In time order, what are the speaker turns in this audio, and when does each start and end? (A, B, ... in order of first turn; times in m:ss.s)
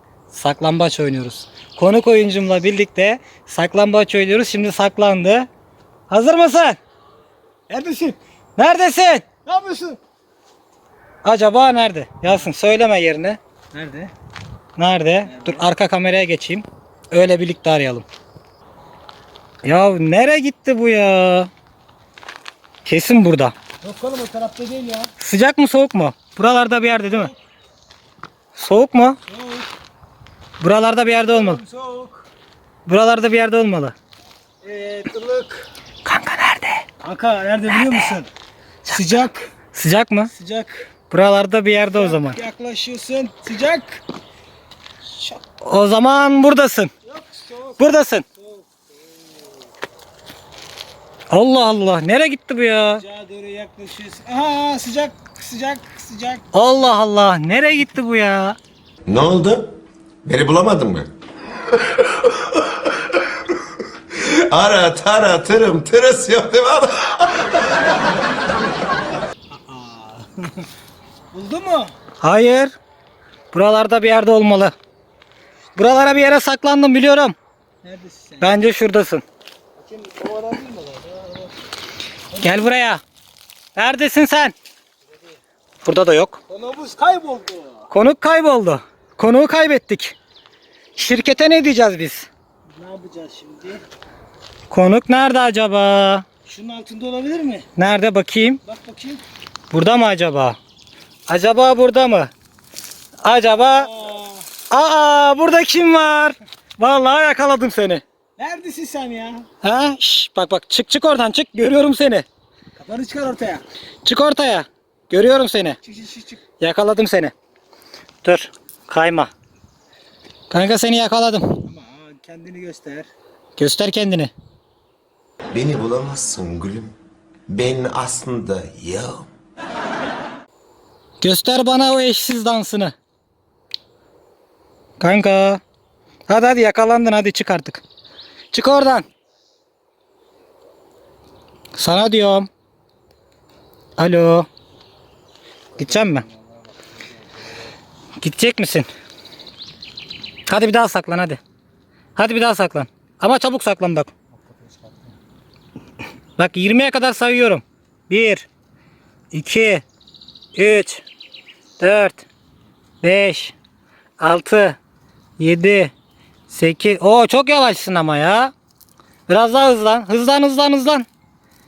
0:00.3-0:05.5 A
0:06.1-0:06.8 A
0:07.7-0:08.2 B
0:08.6-0:09.3 A
0:09.4-0:10.0 B
0:11.2-0:13.4 A
0:13.7-0:14.1 B
0:14.8-0:18.0 A
0:15.3-0:15.6 B
0:19.6-0:21.5 A
0:22.8-0:23.6 A
0:23.8-0:25.1 B
0:25.2-0:27.3 A
0:28.6-0:29.2 A
0:29.3-0:29.7 B
0:30.6-0:31.6 A
0:31.1-0:32.2 B
0:32.9-0:34.0 A
0:34.6-0:35.7 B
0:36.0-0:36.8 A
0:37.0-0:38.3 B
0:37.7-0:38.1 A
0:38.9-0:39.4 B
0:39.7-0:40.3 A
0:40.3-0:40.9 B
0:41.1-0:42.4 A
0:41.9-0:44.0 B
0:45.6-0:46.9 A
0:47.1-0:49.7 B
0:47.8-0:48.2 A
0:51.3-0:53.0 A
0:53.0-0:56.4 B
0:56.5-0:58.6 A
0:59.1-0:59.7 C
1:00.2-1:01.1 C
1:01.9-1:02.7 C
1:04.1-1:07.6 C
1:09.5-1:10.6 B
1:11.3-1:11.9 B
1:12.2-1:12.8 A
1:13.5-1:14.7 A
1:15.8-1:17.3 A
1:17.8-1:18.6 B
1:18.4-1:19.2 A
1:19.8-1:21.5 B
1:22.3-1:22.7 B
1:22.4-1:23.0 A
1:23.8-1:24.5 A
1:25.8-1:26.4 A
1:26.5-1:27.9 B
1:27.9-1:30.2 A
1:30.9-1:32.3 A
1:32.8-1:33.8 B
1:34.7-1:36.2 A
1:36.4-1:37.7 B
1:37.8-1:38.6 A
1:38.6-1:39.2 B
1:39.7-1:40.6 A
1:41.3-1:42.3 A
1:43.2-1:43.9 A
1:43.7-1:44.5 B
1:44.7-1:48.0 A
1:48.4-1:49.4 B
1:49.6-1:52.2 A
1:52.8-1:53.6 B
1:54.0-1:55.8 A
1:55.8-1:56.4 B
1:56.6-1:57.3 A
1:58.2-1:59.3 A
2:00.5-2:01.6 A
2:01.6-2:03.1 B
2:03.6-2:04.3 A
2:05.5-2:06.9 C
2:07.5-2:09.3 C
2:11.2-2:12.9 A
2:15.0-2:15.6 A
2:16.3-2:17.8 A
2:18.5-2:19.1 A
2:21.7-2:22.5 A
2:24.0-2:24.5 A
2:25.8-2:26.2 A
2:25.8-2:26.3 B
2:28.2-2:28.9 A
2:30.4-2:31.4 A
2:32.2-2:34.1 A
2:34.3-2:35.2 B
2:36.4-2:38.5 A
2:39.3-2:39.8 A
2:40.6-2:41.0 A
2:41.8-2:42.3 A
2:43.0-2:43.6 A
2:44.2-2:44.8 A
2:45.4-2:45.9 A
2:46.5-2:48.5 A
2:49.3-2:51.1 A